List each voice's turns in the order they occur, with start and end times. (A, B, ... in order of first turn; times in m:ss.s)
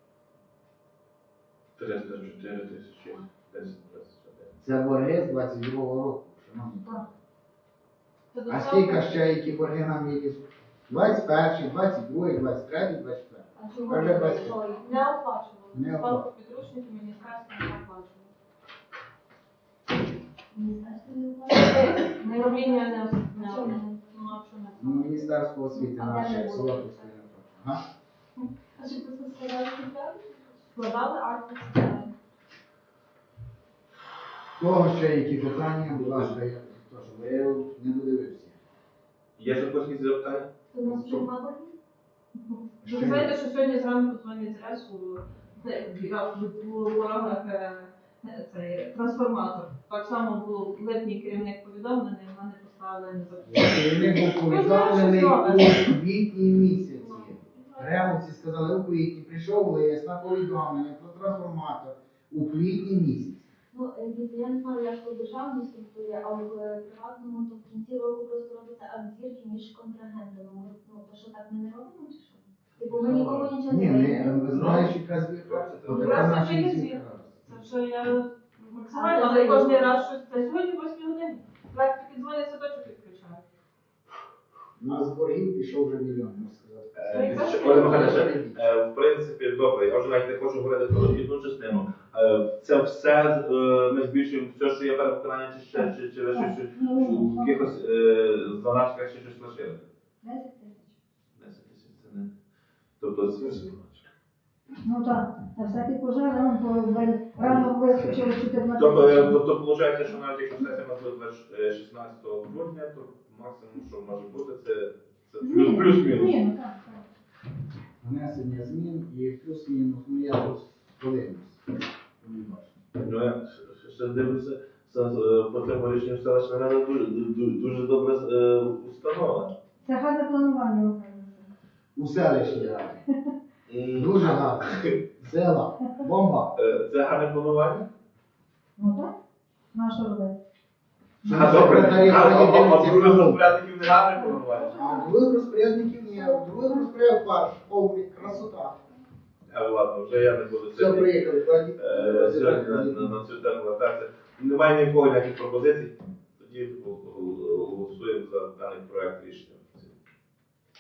0:01.8-0:04.5 A
0:04.6-0:07.1 B
0:08.3-0:09.1 C
0:08.5-0:14.6 B
0:13.6-0:15.1 D
0:14.7-0:18.3 C
0:15.7-0:16.3 B
0:20.5-0:24.4 D
0:21.5-0:25.2 C
0:24.8-0:27.8 B
0:25.7-0:27.1 D
0:28.8-0:30.6 D
0:30.7-0:32.1 C
0:34.6-0:38.6 B
0:39.4-0:41.3 A
0:40.7-0:41.7 D
0:42.5-0:56.0 C
0:42.8-0:43.3 B
0:53.5-1:03.5 B
0:57.0-0:58.1 C
1:03.7-1:14.8 D
1:12.8-1:13.5 A
1:13.6-1:17.4 B
1:15.4-1:16.4 A
1:15.9-1:23.4 C
1:18.8-1:19.9 D
1:24.8-1:28.6 B
1:27.0-1:39.8 A
1:27.1-1:28.2 C
1:36.3-1:37.6 E
1:40.2-1:41.0 E
1:41.4-1:42.3 A
1:43.0-1:44.0 A
1:44.8-1:49.4 E
1:48.8-1:56.4 A
1:55.4-1:57.1 E
1:58.0-2:01.6 B
2:02.2-2:02.7 B
2:03.0-2:09.5 A
2:09.8-2:11.5 E
2:12.0-2:13.0 B
2:13.7-2:15.0 A
2:14.0-2:16.5 B
2:16.6-2:17.9 A
2:18.8-2:19.1 E
2:19.7-2:20.4 E
2:21.2-2:23.4 B
2:21.3-2:24.8 A
2:24.1-2:25.1 E
2:24.8-2:28.8 B
2:26.1-2:26.8 E
2:29.5-2:31.1 A
2:30.7-2:33.1 B
2:31.8-2:39.9 A